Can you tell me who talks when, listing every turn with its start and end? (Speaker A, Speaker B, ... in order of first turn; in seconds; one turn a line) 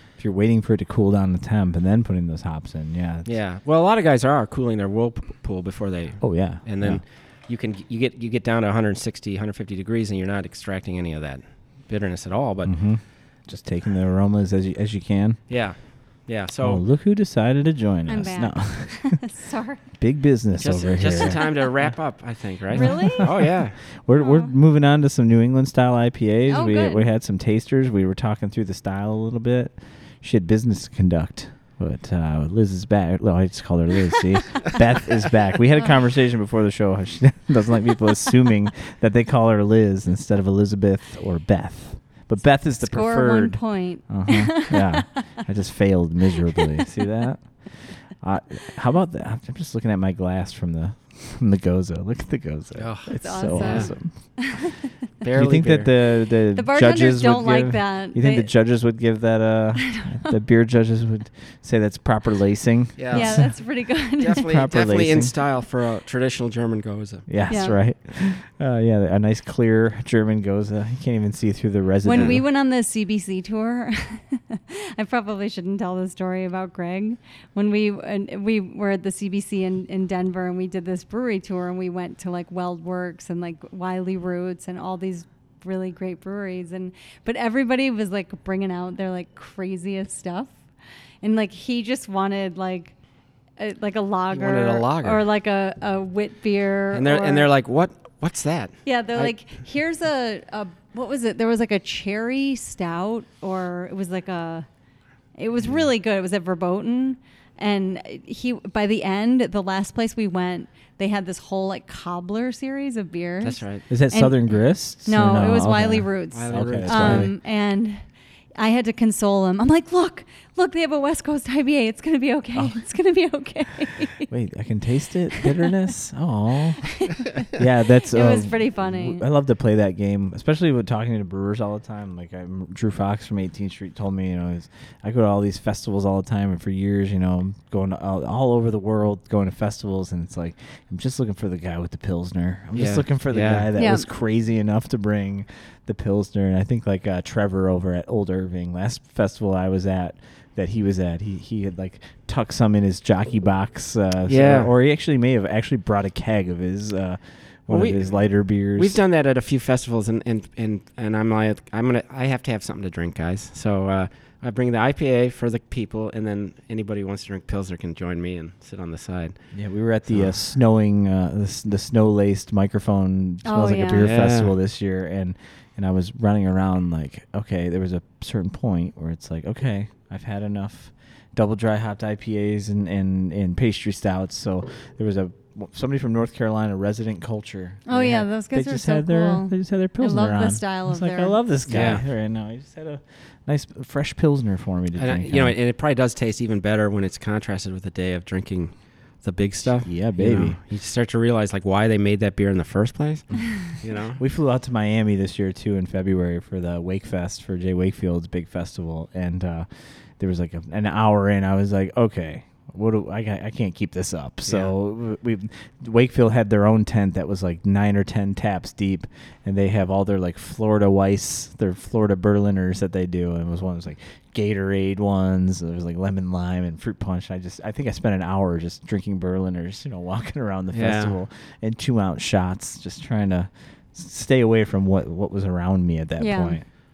Speaker A: 0.2-3.3
Speaker B: 3.2-12.7
Speaker A: 6.2-7.0
Speaker A: 12.6-15.4
Speaker B: 15.5-16.8
Speaker A: 16.6-19.2
Speaker C: 18.1-19.8
Speaker A: 20.0-21.4
Speaker B: 20.6-23.8
Speaker C: 21.1-21.6
Speaker C: 22.7-23.3
Speaker A: 22.7-54.7
Speaker C: 24.1-24.5
Speaker C: 26.5-27.1
Speaker C: 42.8-45.2
Speaker B: 52.8-53.9
Speaker C: 53.2-54.9
Speaker B: 55.2-55.9
Speaker A: 55.3-63.5
Speaker C: 56.5-58.5
Speaker C: 59.8-60.3
Speaker B: 63.0-63.6
Speaker C: 63.1-64.5
Speaker B: 64.2-67.3
Speaker A: 64.3-65.3
Speaker A: 67.3-72.4
Speaker C: 67.5-67.8
Speaker C: 72.0-90.5
Speaker B: 72.1-72.4
Speaker C: 91.2-92.9
Speaker C: 93.6-97.5
Speaker B: 94.3-95.2
Speaker B: 96.9-99.3
Speaker C: 98.8-104.7
Speaker C: 105.4-118.0
Speaker B: 113.4-113.8
Speaker A: 113.9-117.3
Speaker B: 116.3-117.3
Speaker C: 118.5-124.3
Speaker A: 124.3-127.0
Speaker C: 126.8-127.5
Speaker A: 127.5-159.0
Speaker C: 128.0-129.2
Speaker B: 142.7-143.7
Speaker C: 143.8-144.1
Speaker B: 154.3-154.7
Speaker B: 157.7-169.5
Speaker A: 169.5-195.5
Speaker B: 170.1-170.3
Speaker C: 173.4-174.1
Speaker B: 174.0-174.5
Speaker C: 187.9-191.4
Speaker B: 191.7-192.0
Speaker B: 194.9-204.2
Speaker A: 199.8-200.6
Speaker A: 204.2-209.7
Speaker A: 210.2-236.6
Speaker B: 214.4-214.7
Speaker B: 230.7-231.2
Speaker C: 236.2-236.6